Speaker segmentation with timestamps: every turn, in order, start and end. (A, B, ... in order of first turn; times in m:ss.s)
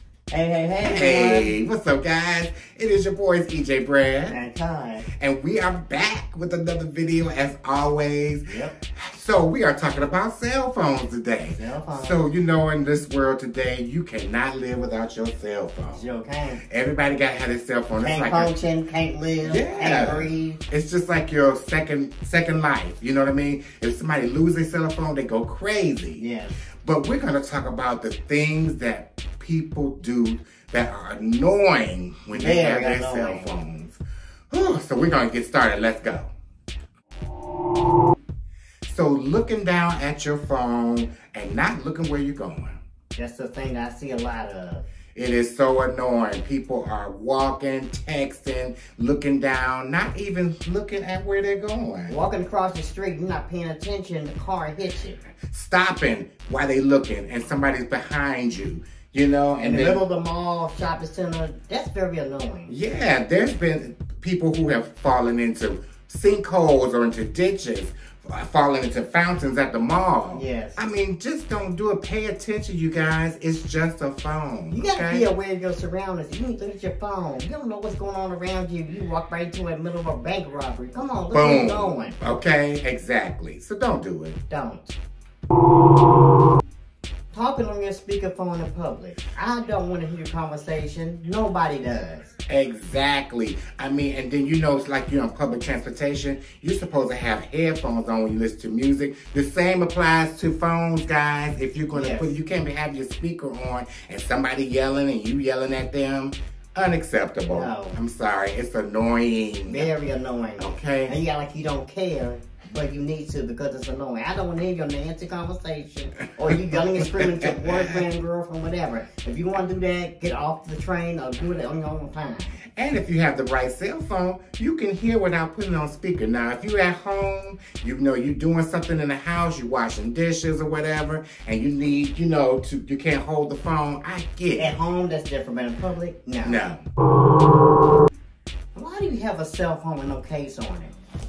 0:00.3-0:01.6 A
0:00.8-0:04.4 B
0:04.3-0:05.1 A
0:05.2-0:16.0 B
0:08.5-0:08.8 A
0:11.5-0:12.2 A
0:15.9-0:16.6 A
0:16.7-0:18.5 B
0:18.0-0:20.6 A
0:19.4-0:26.2 B
0:26.2-0:26.6 A
0:26.8-0:34.0 B
0:32.3-0:33.5 A
0:34.5-0:36.3 B
0:38.8-0:42.8 B
0:43.2-0:44.8 A
0:45.2-0:52.2 B
0:52.1-0:55.2 A
0:55.5-1:00.0 B
0:59.6-1:02.8 A
1:02.7-1:15.3 B
1:10.3-1:10.8 A
1:14.7-1:22.2 A
1:21.3-1:24.4 B
1:24.5-1:25.0 A
1:27.3-1:32.3 A
1:32.5-1:49.9 B
1:41.9-1:42.4 A
1:47.5-1:48.0 A
1:49.7-2:02.6 A
1:50.6-1:51.2 B
1:56.5-1:58.0 B
2:02.8-2:14.8 B
2:14.6-2:16.6 A
2:16.4-2:16.8 B
2:18.8-2:20.9 A